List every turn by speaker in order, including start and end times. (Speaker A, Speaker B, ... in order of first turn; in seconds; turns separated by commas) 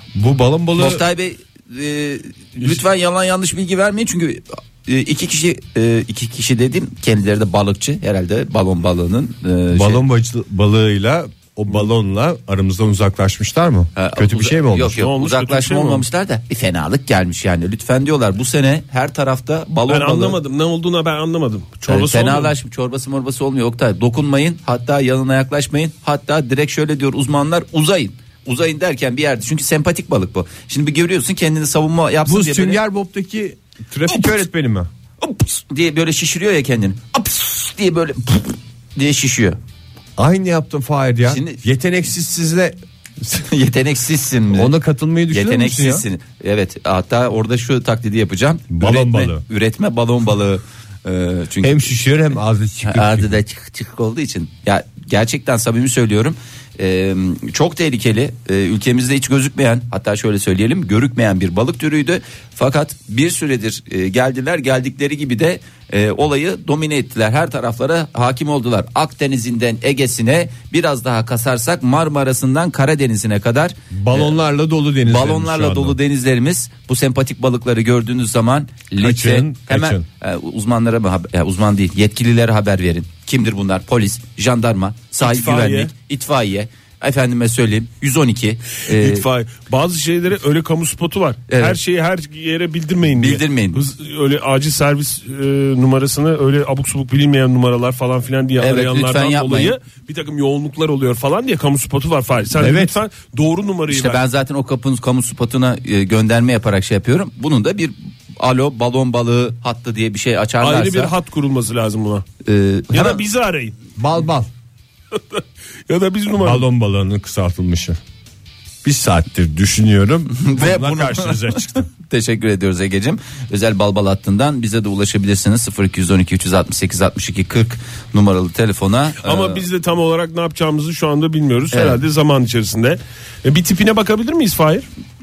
Speaker A: 0.1-1.0, Speaker B: 0.8-10.0, Speaker A: 9.7-15.0, Speaker B: 13.9-20.4, Speaker C: 14.9-16.0, Speaker C: 19.9-22.5, Speaker B: 21.9-32.8, Speaker A: 32.2-34.9, Speaker B: 34.1-34.4, Speaker B: 35.2-39.6, Speaker A: 40.2-42.8, Speaker B: 41.3-41.6, Speaker B: 43.3-44.7, Speaker A: 44.5-46.0, Speaker B: 45.3-51.9, Speaker A: 48.7-49.4, Speaker A: 51.6-53.3, Speaker B: 52.8-74.3, Speaker A: 73.9-76.0, Speaker B: 75.0-89.2, Speaker A: 79.0-80.0, Speaker C: 85.2-85.9, Speaker C: 88.9-104.2, Speaker B: 91.5-91.8, Speaker B: 93.1-93.8, Speaker B: 98.6-99.7, Speaker A: 102.5-103.0, Speaker B: 103.9-111.1, Speaker C: 110.6-112.2, Speaker B: 112.4-113.2, Speaker C: 112.9-113.7, Speaker A: 114.0-114.5, Speaker C: 115.1-116.6, Speaker A: 116.4-118.0, Speaker A: 118.8-121.9, Speaker B: 120.3-129.6, Speaker C: 129.2-134.9, Speaker B: 131.7-132.0